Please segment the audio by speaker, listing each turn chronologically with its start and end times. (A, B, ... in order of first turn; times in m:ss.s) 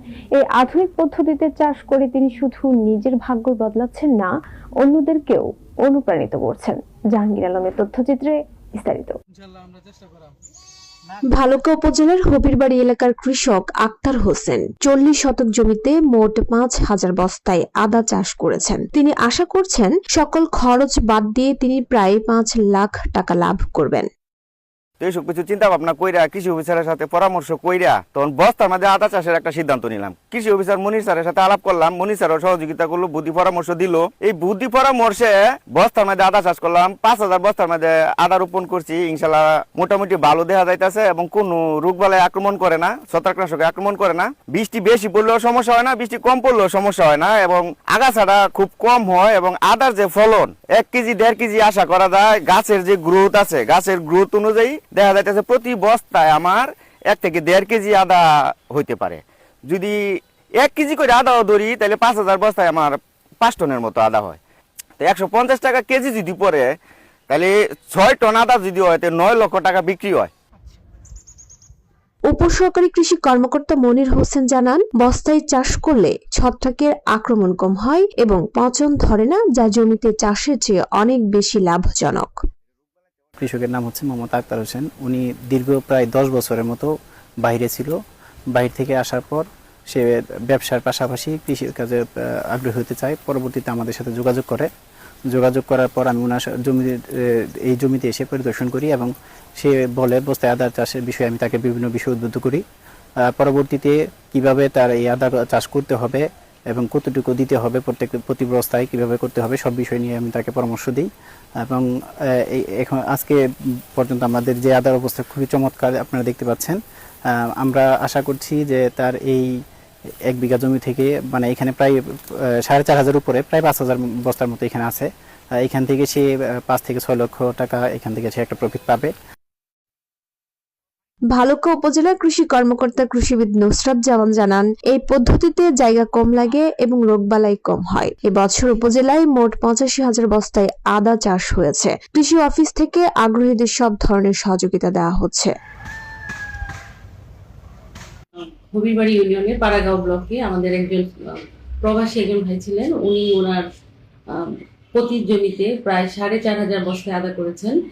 0:00.5-0:04.1 A
0:01.7-0:03.0 B
0:03.9-0:04.2 B
0:04.9-0:05.4 A
0:05.9-0:06.7 A
0:06.0-0:07.7 B
0:07.2-0:08.3 A
0:08.8-0:09.1 B
0:11.3-0:24.1 B
0:25.0-0:58.2 C
0:58.7-0:59.2 C
1:00.6-1:02.9 C
1:03.4-1:04.4 C
1:05.0-1:06.6 C
1:07.3-1:10.3 C
1:12.3-1:22.4 B
1:23.4-1:26.9 D
1:27.4-1:27.9 D
1:28.5-1:34.7 D
1:35.3-1:42.6 D
1:43.3-1:51.1 D
1:52.5-1:53.4 D
1:54.0-1:56.8 D
1:57.6-1:59.5 D
2:00.3-2:02.0 D
2:02.6-2:05.1 D
2:05.6-2:09.1 D
2:11.3-2:25.5 B
2:28.7-2:33.6 E
2:34.3-2:37.8 E